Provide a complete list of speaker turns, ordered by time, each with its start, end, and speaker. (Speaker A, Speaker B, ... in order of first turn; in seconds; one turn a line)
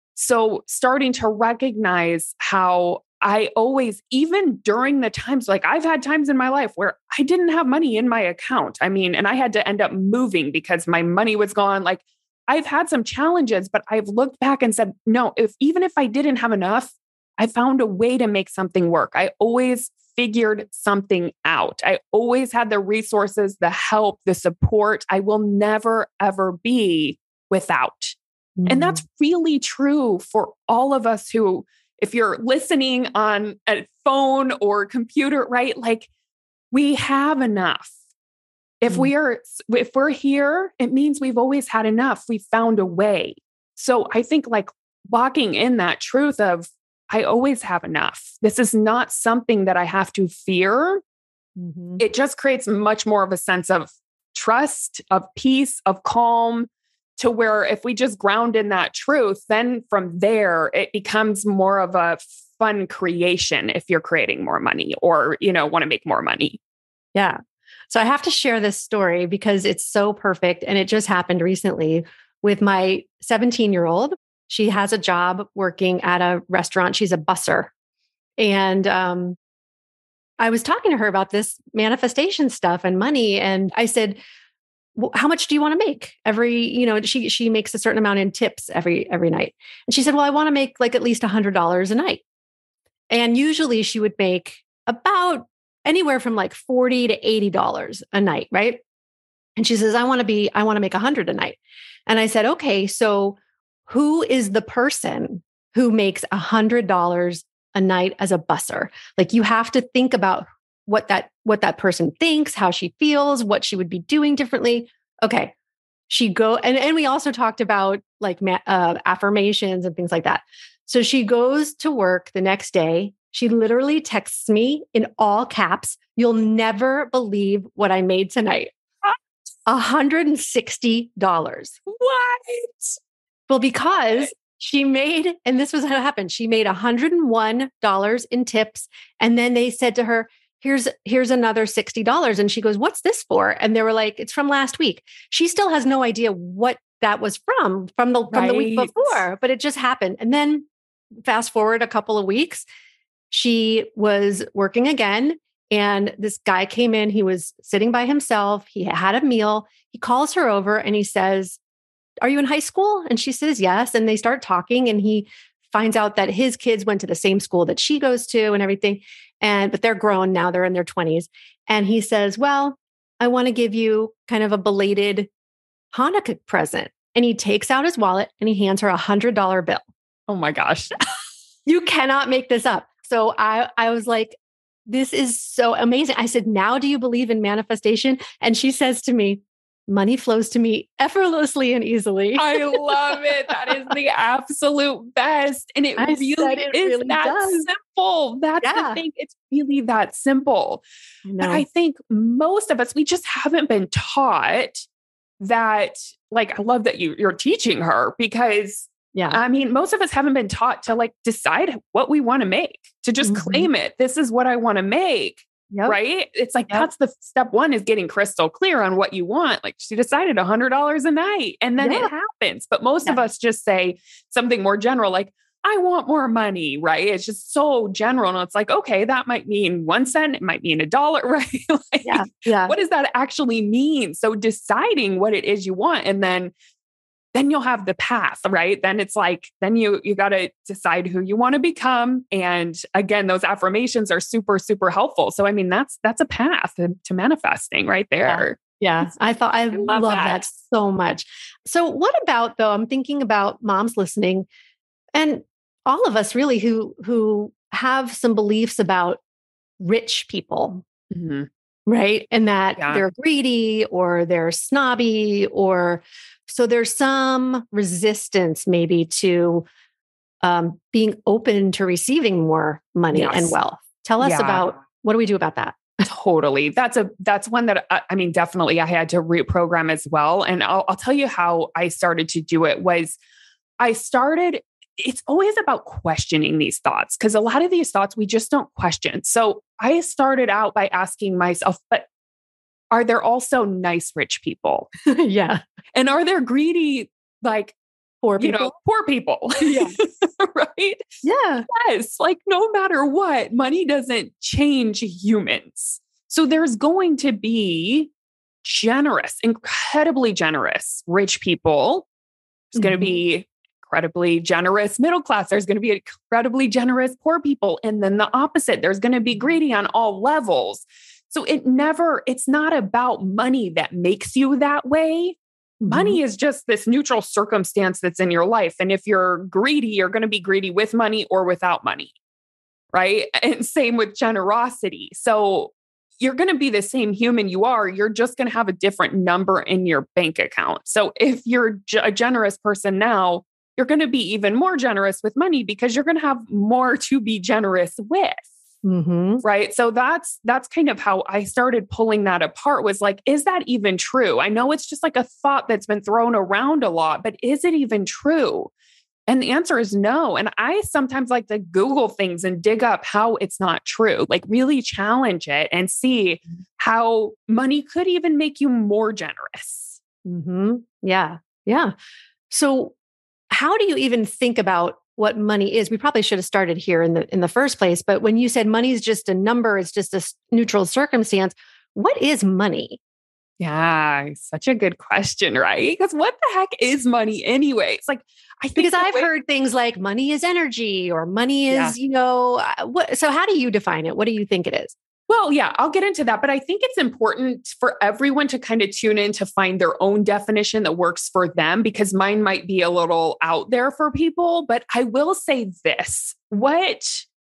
Speaker A: 0.1-36.1
Speaker B: 28.6-29.0
Speaker A: 36.7-37.9
Speaker A: 38.8-51.0
Speaker B: 51.6-52.0
Speaker A: 52.0-66.6
Speaker B: 67.9-77.7
Speaker B: 78.4-79.4
Speaker B: 80.4-84.2
Speaker B: 84.9-92.2
Speaker B: 93.1-98.8
Speaker B: 99.6-115.5
Speaker B: 116.1-128.7
Speaker B: 129.7-131.8
Speaker A: 131.9-133.0
Speaker B: 133.5-150.7
Speaker A: 148.3-149.2
Speaker B: 151.2-152.6
Speaker B: 153.3-161.6
Speaker B: 162.2-175.3
Speaker B: 175.9-179.8
Speaker A: 180.3-180.9
Speaker B: 181.7-184.4
Speaker B: 184.9-193.2
Speaker A: 192.4-200.8
Speaker B: 196.0-197.7
Speaker B: 198.6-199.0
Speaker B: 201.2-201.6
Speaker A: 201.4-204.8
Speaker A: 205.4-236.5
Speaker B: 209.1-209.4
Speaker B: 213.2-213.7
Speaker B: 215.7-215.9
Speaker B: 221.8-222.1
Speaker B: 232.0-232.8
Speaker A: 237.3-249.1
Speaker B: 248.2-254.5
Speaker A: 249.7-250.4
Speaker B: 255.1-259.2
Speaker B: 259.8-260.8
Speaker A: 261.1-261.5
Speaker B: 261.9-269.7
Speaker A: 262.8-263.0
Speaker B: 270.4-275.9
Speaker A: 273.1-273.6
Speaker A: 274.2-274.6
Speaker A: 276.1-283.2
Speaker A: 283.8-292.1
Speaker A: 292.9-294.9
Speaker B: 295.1-295.6
Speaker A: 295.9-297.8
Speaker B: 298.2-298.7
Speaker A: 298.4-301.0
Speaker B: 299.6-300.0
Speaker B: 301.2-301.7
Speaker A: 301.7-308.1
Speaker A: 308.6-312.1
Speaker A: 312.7-332.1
Speaker B: 312.8-313.2
Speaker B: 325.8-326.2
Speaker A: 332.9-348.5
Speaker B: 348.8-349.4
Speaker A: 349.4-358.7
Speaker A: 359.3-370.0
Speaker B: 370.2-371.9
Speaker B: 372.5-372.9
Speaker B: 373.5-383.0
Speaker A: 383.6-389.3
Speaker B: 388.8-394.9
Speaker A: 391.7-391.9
Speaker A: 395.3-407.2